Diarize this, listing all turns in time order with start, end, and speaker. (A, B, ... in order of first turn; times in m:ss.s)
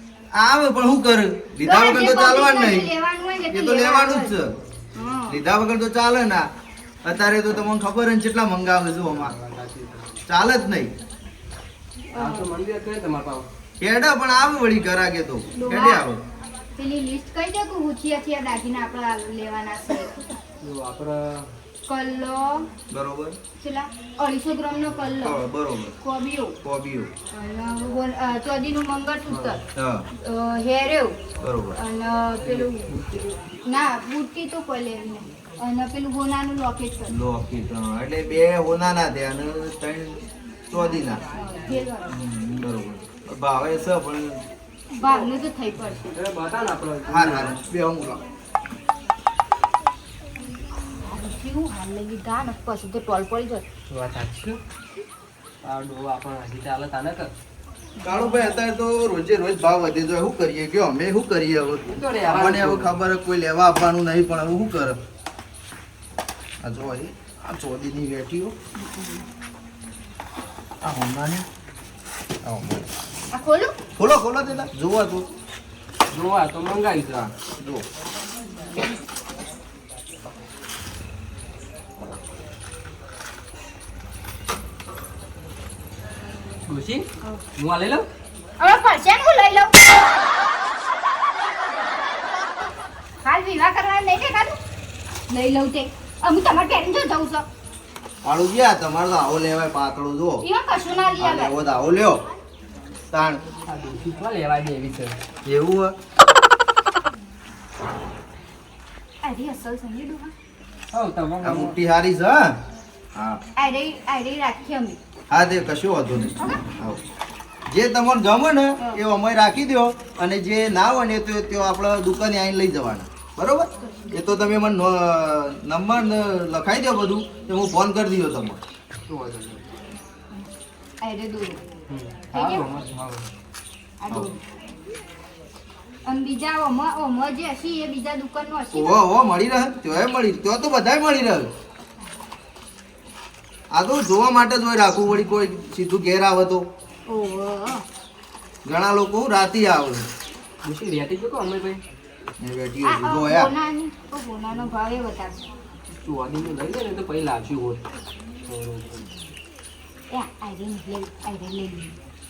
0:00.3-0:02.9 A
0:01.6-0:04.3 B
0:03.5-0:04.5 A
0:04.9-0:05.4 B
0:05.3-0:06.4 A
0:07.0-0:09.3 A
0:09.1-0:10.2 C
0:10.3-0:10.9 A
0:12.1-0:12.5 B
0:12.1-0:13.4 C
0:13.8-0:16.2 A
0:15.5-0:16.0 B
0:16.8-0:20.2 B
0:20.6-0:21.4 C
0:21.9-0:22.7 B
0:22.9-0:23.4 A
0:23.6-0:25.4 B
0:25.2-0:25.9 A
0:26.0-0:26.6 B
0:26.6-0:27.1 A
0:27.3-0:29.6 B
0:29.3-0:29.6 C
0:29.7-0:30.0 A
0:30.2-0:31.2 B
0:31.4-0:31.8 A
0:31.8-0:32.9 B
0:32.4-0:33.3 C
0:33.7-0:37.1 B
0:37.1-0:40.2 A
0:40.7-0:41.2 A
0:41.3-0:42.1 B
0:42.1-0:44.4 A
0:44.9-0:46.2 B
0:46.1-0:47.5 C
0:47.1-0:48.2 A
0:51.0-0:53.6 B
0:53.9-0:54.6 C
0:55.6-0:57.3 C
0:58.0-0:58.6 B
0:58.0-1:05.0 A
1:01.8-1:03.0 C
1:06.6-1:08.5 A
1:08.8-1:09.2 B
1:10.8-1:11.4 A
1:13.3-1:13.7 B
1:14.0-1:15.2 A
1:16.1-1:17.3 C
1:17.6-1:17.8 A
1:26.7-1:27.0 C
1:27.6-1:28.0 C
1:28.6-1:29.7 B
1:33.2-1:34.6 B
1:35.3-1:37.4 B
1:38.2-1:40.4 A
1:40.4-1:41.5 B
1:41.2-1:42.2 A
1:43.1-1:43.4 A
1:43.7-1:45.1 C
1:45.4-1:45.9 A
1:49.2-1:50.3 B
1:50.9-1:51.8 C
1:51.4-1:52.6 A
1:53.6-1:55.0 B
1:55.3-1:57.0 A
1:57.7-2:08.6 A
2:09.1-2:09.6 C
2:11.0-2:11.6 B
2:11.9-2:13.3 C
2:12.3-2:12.6 B
2:14.0-2:14.4 B
2:16.0-2:19.0 B
2:18.7-2:21.5 A
2:23.7-2:26.7 A
2:27.1-2:27.8 B
2:28.6-2:30.1 A
2:30.6-2:31.8 C
2:32.4-2:33.5 A
2:32.8-2:35.4 B
2:36.0-2:37.8 C
2:38.5-2:39.0 C
2:40.1-2:41.9 B